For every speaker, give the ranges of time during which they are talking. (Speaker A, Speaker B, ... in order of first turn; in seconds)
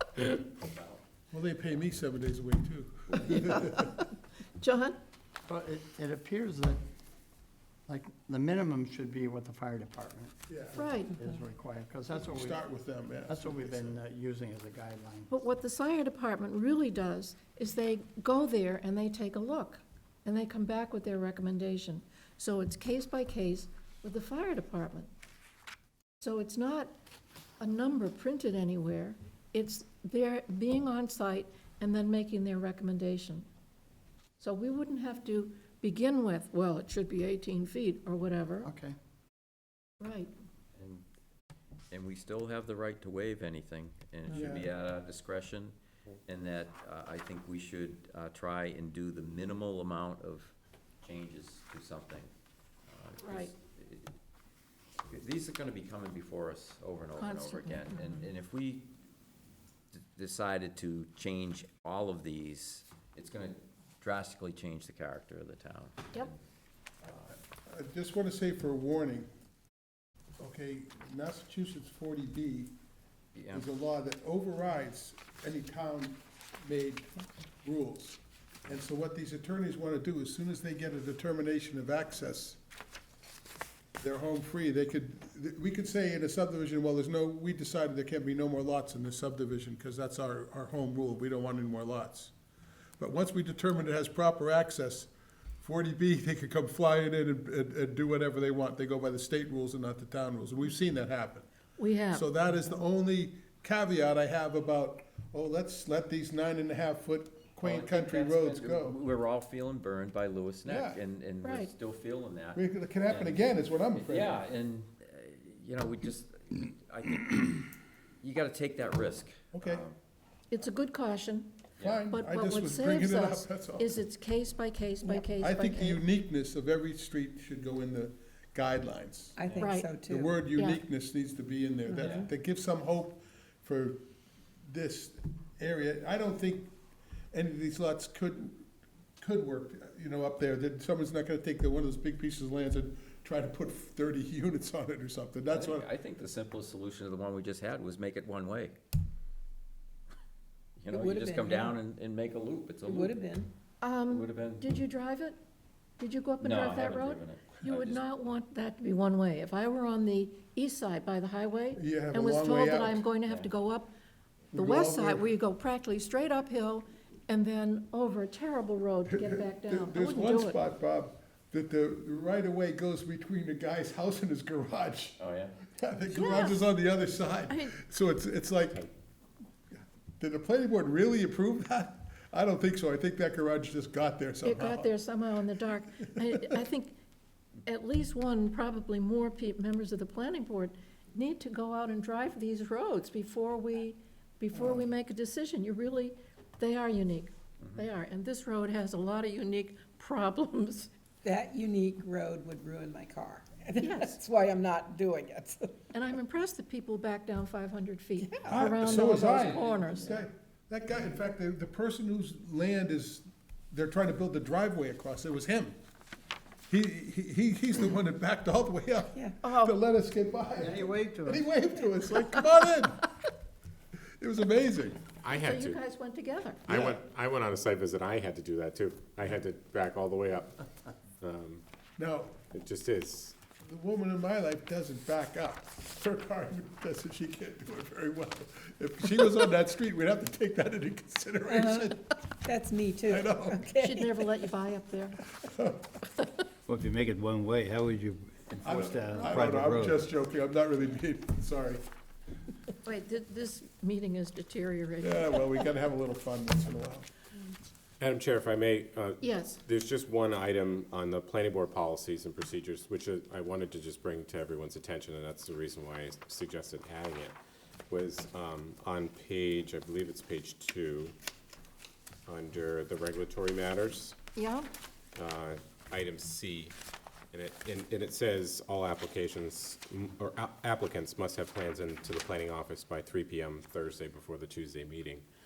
Speaker A: 0.6-1.0, 40.8-41.0, 41.9-45.7, 46.3-52.3, 52.9-54.1, 55.1-58.9, 59.9-66.4, 73.3-73.7, 107.6-117.7, 118.2-120.0, 129.4-129.7, 132.0-132.3, 145.5-148.8, 150.8-153.3, 154.1-154.6, 156.4-158.0, 175.2-175.6
Speaker B: 1.3-3.9, 10.5-10.8, 12.2-14.0, 44.3-44.7, 67.0-69.3, 70.4-72.7, 73.5-82.6, 84.0-92.3, 93.0-95.1, 95.6-101.5, 102.1-109.0, 110.7-111.0, 112.5-114.4, 119.5-119.8, 121.8-124.0, 125.4-129.4, 130.0-134.0, 134.7-136.7, 137.3-138.7, 139.2-145.9, 161.8-163.0, 164.5-165.3, 169.1-178.9, 179.7-184.9, 185.9-186.6, 194.5-194.9, 208.5-215.8, 216.7-223.1, 224.2-225.0, 226.7-227.0, 232.0-232.4, 233.6-242.0, 243.1-243.6, 245.4-245.9, 248.6-251.8, 255.0-257.1
Speaker C: 3.2-4.0, 4.6-5.0, 10.8-11.2, 15.3-25.1, 26.2-26.9, 27.6-33.5, 34.4-38.7, 40.0-40.3, 53.2-53.5, 57.2-58.1, 101.8-102.3, 111.4-111.7, 120.5-121.6, 122.1-126.0, 129.6-129.9, 130.5-130.8, 153.8-155.4, 156.0-163.9, 164.5-170.6, 176.1-176.6, 177.5-177.8, 184.4-186.9, 187.7-200.9, 203.8-204.2, 205.9-210.3, 219.4-219.8, 225.3-226.7, 243.8-245.2, 252.8-255.7, 259.2-259.6, 274.4-274.7
Speaker D: 5.5-6.8, 7.9-12.6, 13.2-15.3, 38.6-39.0, 220.6-221.5
Speaker E: 125.0-125.3, 129.4-130.4, 131.9-132.3, 150.9-151.8, 152.9-153.5, 201.2-205.8, 241.5-244.3
Speaker F: 225.2-225.8, 226.7-230.5, 231.2-231.6, 232.5-233.4, 258.0-267.4, 267.9-271.1, 272.3-274.2, 275.2-276.8, 277.3-285.2
Speaker G: 246.7-250.1